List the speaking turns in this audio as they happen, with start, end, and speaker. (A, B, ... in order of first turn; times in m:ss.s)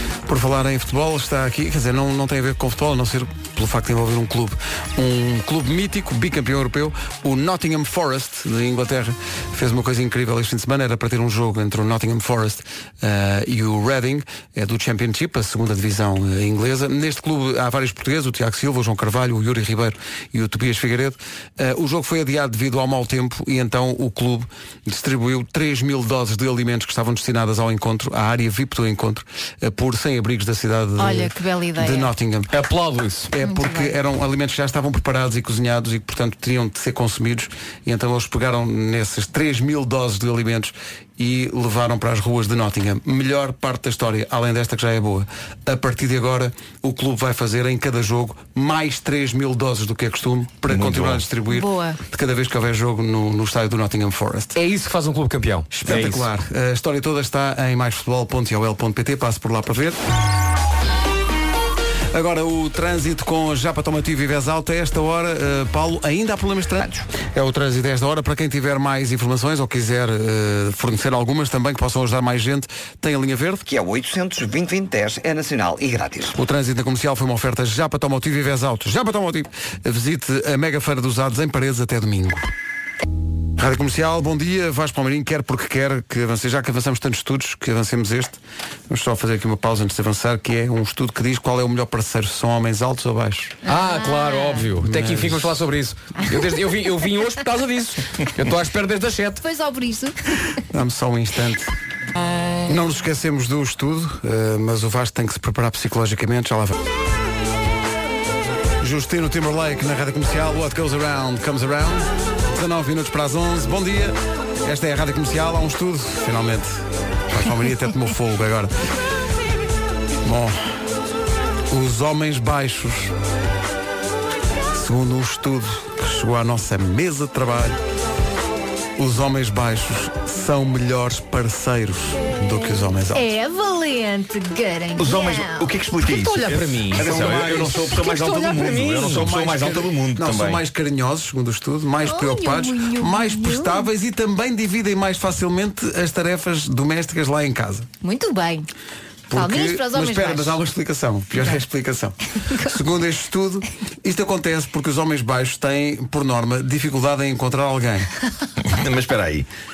0:00.3-0:32.6 A
0:31.0-0:32.1 B
0:32.5-0:33.3 C
0:33.3-0:54.6 A
0:33.4-0:34.0 B
0:50.7-0:51.2 D
0:51.5-0:52.0 B
0:54.6-0:56.3 C
0:55.7-1:00.0 A
1:02.1-1:13.6 A
1:06.8-1:07.0 E
1:13.7-1:16.4 E
1:16.3-1:22.5 A
1:23.6-1:33.6 A
1:33.6-1:34.7 B
1:33.6-1:39.4 C
1:34.8-1:35.6 A
1:36.3-1:36.5 B
1:39.4-1:40.6 B
1:40.7-1:41.7 A
1:42.6-1:46.8 A
1:48.8-1:58.7 A
2:00.2-2:00.6 A
2:01.7-2:03.2 A
2:04.7-2:07.8 A
2:09.0-2:13.3 A
2:13.1-2:15.7 B
2:15.0-2:20.6 D
2:16.0-2:19.3 C
2:16.9-2:18.0 A
2:19.0-2:27.9 A
2:22.1-2:23.9 B
2:28.0-2:28.7 B
2:29.3-2:38.1 A
2:29.3-2:30.6 B
2:38.6-2:39.5 D